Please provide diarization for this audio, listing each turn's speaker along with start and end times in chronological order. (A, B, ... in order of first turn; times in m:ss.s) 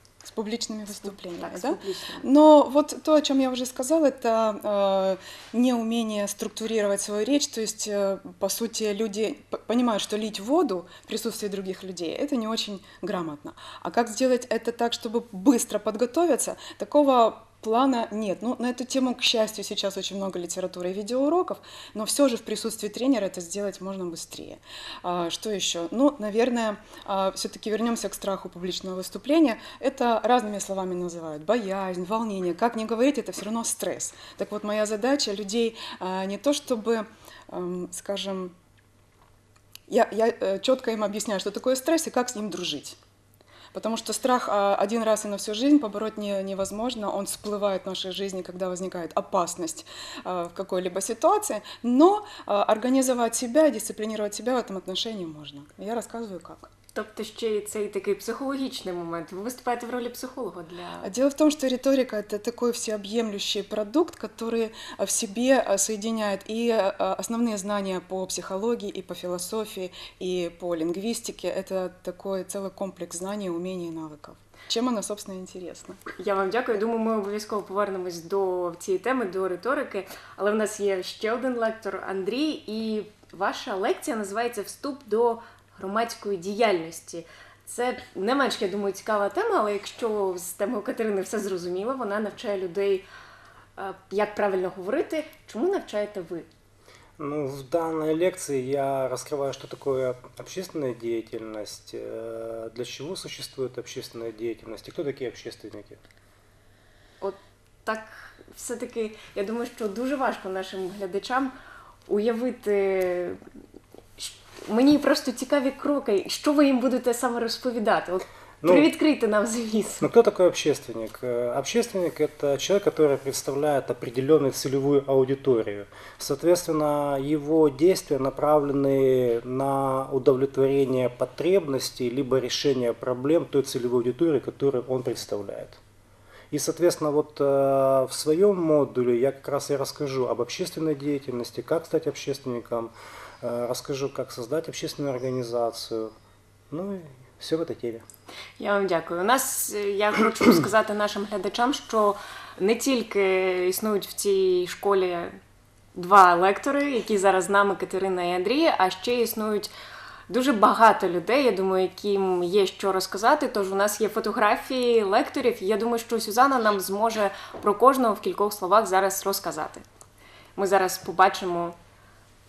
0:00.2-0:38.6 A
0:01.0-0:02.3 B
0:39.9-0:43.0 A
0:43.7-0:56.7 A
0:56.9-1:01.1 B
1:01.0-1:16.0 A
1:16.2-1:33.1 B
1:33.8-1:36.5 B
1:37.2-1:46.0 C
1:47.2-1:51.5 B
1:52.1-1:53.4 B
1:54.2-2:00.1 B
1:58.6-1:58.9 C
2:00.0-2:15.8 C
2:16.5-2:26.1 C
2:26.7-2:28.0 C
2:28.6-2:35.4 B
2:36.0-2:39.7 B
2:40.3-2:49.8 B
2:50.6-2:51.8 B